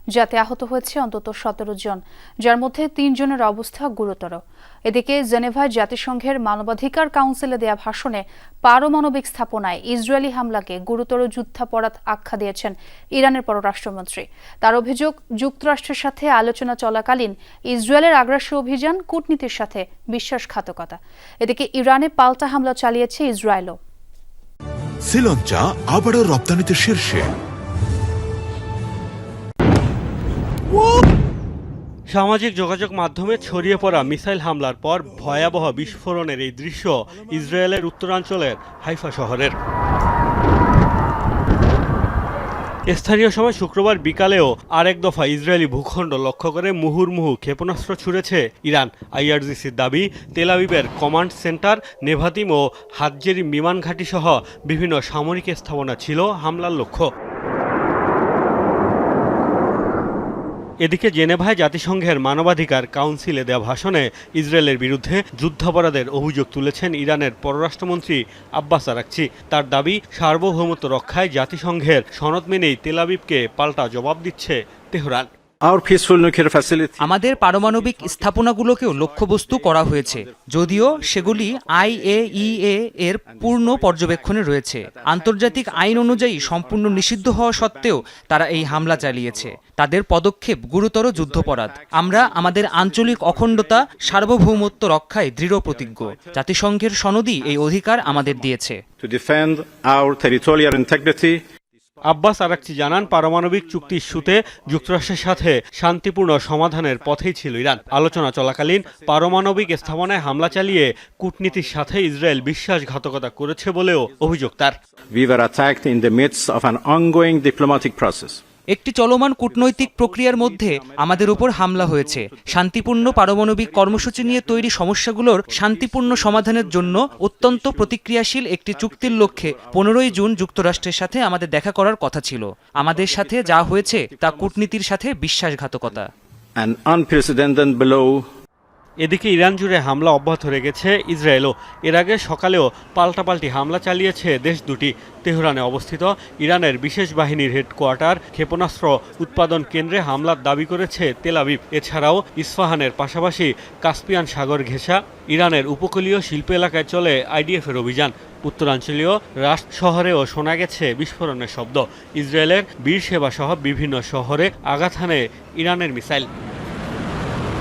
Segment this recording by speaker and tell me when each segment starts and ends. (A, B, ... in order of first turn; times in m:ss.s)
0:00.1-0:23.8 A
0:25.0-0:27.3 B
0:32.1-0:39.5 C
0:42.9-0:57.1 C
1:00.8-1:15.3 C
1:15.6-1:22.7 D
1:17.0-1:38.8 E
1:23.2-1:29.7 D
1:31.2-1:34.8 D
1:35.6-1:36.4 D
1:37.4-1:41.4 D
1:42.0-1:54.8 C
1:43.2-1:44.3 D
1:44.9-1:45.2 D
1:50.0-1:50.8 D
1:51.5-1:52.3 D
1:55.1-1:58.4 D
1:58.7-2:16.1 E
1:59.5-2:08.0 D
2:08.6-2:10.9 D
2:12.8-2:14.8 D
2:16.6-2:18.3 D
2:19.0-2:46.3 C